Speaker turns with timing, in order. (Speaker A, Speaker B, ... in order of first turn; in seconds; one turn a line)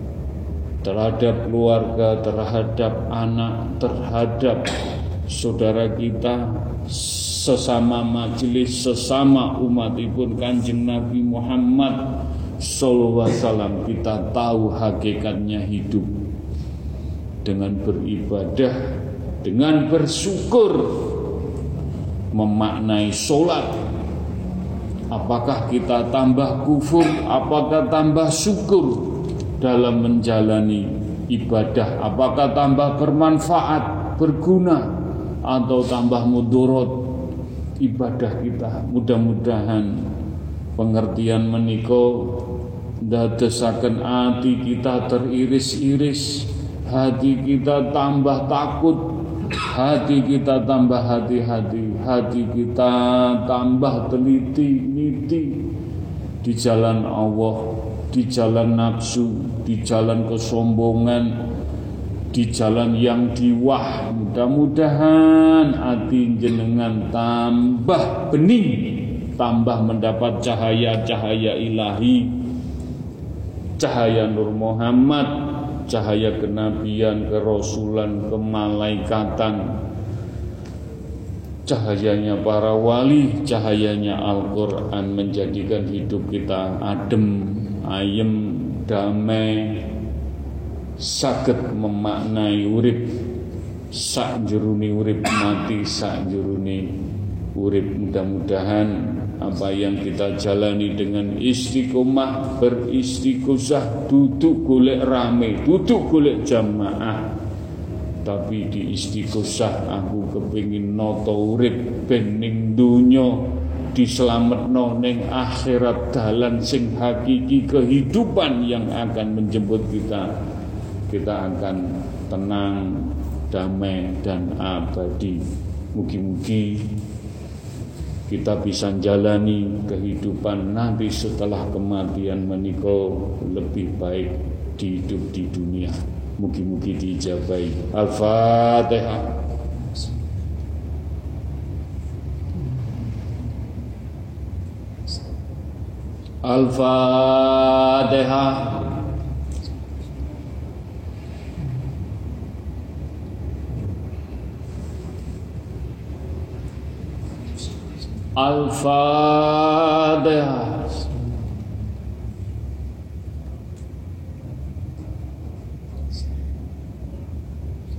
Speaker A: 0.8-4.7
Speaker A: 5.3-12.0
Speaker A: 12.6-16.1
Speaker A: 17.4-18.7
Speaker A: 19.4-21.2
Speaker A: 22.3-23.8
Speaker A: 25.1-34.8
Speaker A: 35.4-37.0
Speaker A: 37.8-39.9
Speaker A: 40.8-55.7
Speaker A: 56.4-61.3
Speaker A: 62.3-72.3
Speaker A: 73.8-79.6
Speaker A: 81.7-89.9
Speaker A: 91.0-93.1
Speaker A: 93.9-96.9
Speaker A: 97.5-107.3
Speaker A: 108.2-113.4
Speaker A: 113.9-120.3
Speaker A: 121.1-125.4
Speaker A: 125.9-126.8
Speaker A: 128.3-139.3
Speaker A: 146.4-148.9
Speaker A: 158.3-161.0